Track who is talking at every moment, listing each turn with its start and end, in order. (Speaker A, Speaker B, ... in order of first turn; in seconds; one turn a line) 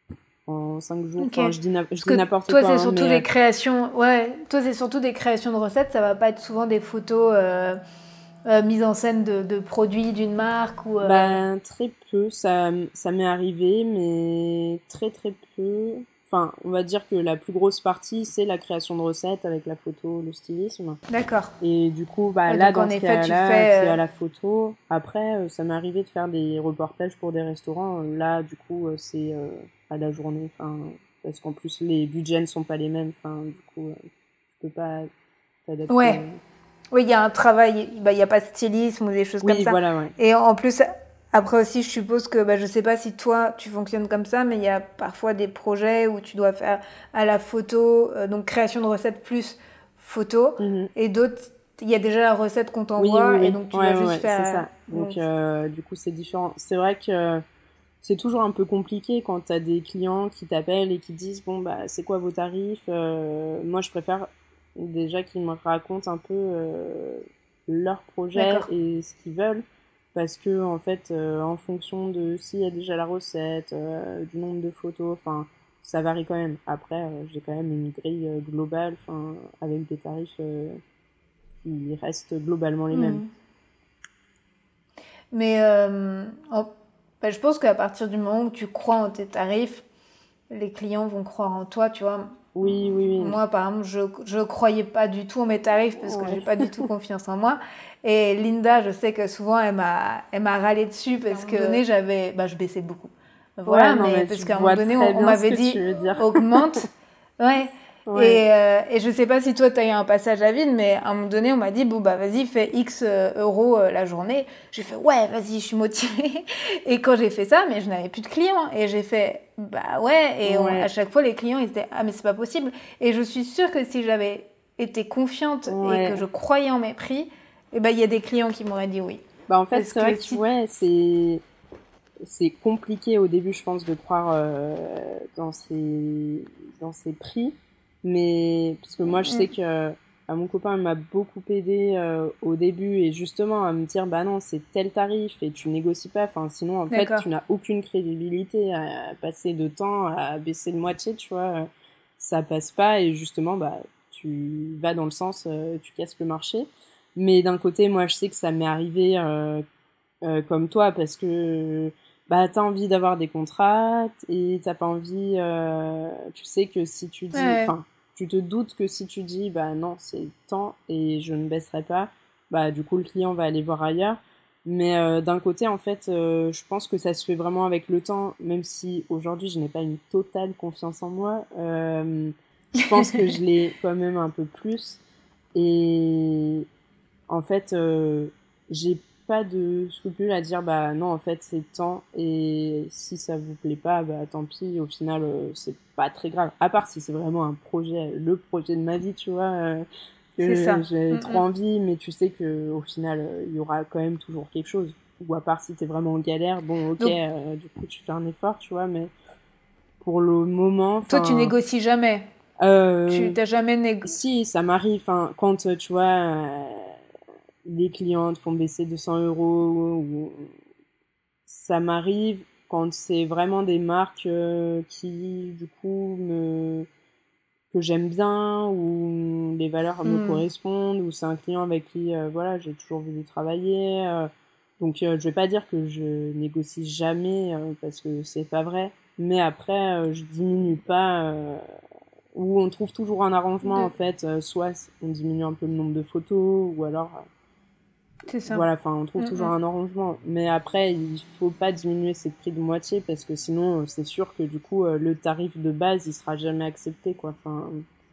Speaker A: 0.5-3.3
Speaker B: 1.2-7.8
Speaker B: 8.4-11.4
Speaker A: 11.0-21.0
Speaker B: 21.1-21.5
Speaker A: 21.6-34.0
Speaker B: 22.5-24.0
Speaker A: 34.5-35.1
Speaker A: 35.7-36.4
Speaker B: 35.9-36.2
Speaker B: 36.9-55.2
Speaker A: 39.4-40.2
Speaker A: 50.6-50.9
Speaker A: 53.0-57.4
Speaker A: 58.0-80.8
Speaker B: 68.3-68.7
Speaker A: 81.6-83.2
Speaker B: 82.9-83.3
Speaker B: 85.3-86.7
Speaker B: 87.2-89.8
Speaker B: 90.5-92.5
Speaker A: 92.5-93.4
Speaker B: 93.2-130.4
Speaker A: 96.0-96.9
Speaker A: 101.3-101.8
Speaker A: 103.7-106.9
Speaker A: 108.1-108.4
Speaker A: 120.4-120.9
Speaker A: 125.7-126.2
Speaker A: 129.5-131.4
Speaker A: 132.2-159.7
Speaker B: 139.2-139.5
Speaker B: 146.9-147.3
Speaker A: 160.2-185.0
Speaker B: 167.3-167.7
Speaker A: 185.6-186.7
Speaker A: 187.3-209.1
Speaker B: 200.4-201.4
Speaker A: 210.0-211.5
Speaker B: 211.1-212.3
Speaker A: 212.6-213.4
Speaker B: 213.1-214.2
Speaker A: 214.1-217.0
Speaker A: 217.7-220.6
Speaker A: 221.5-226.9
Speaker A: 227.7-241.6
Speaker B: 230.1-230.4
Speaker A: 242.3-247.2
Speaker B: 243.6-243.9
Speaker B: 248.3-248.7
Speaker A: 248.5-257.9
Speaker B: 249.2-249.5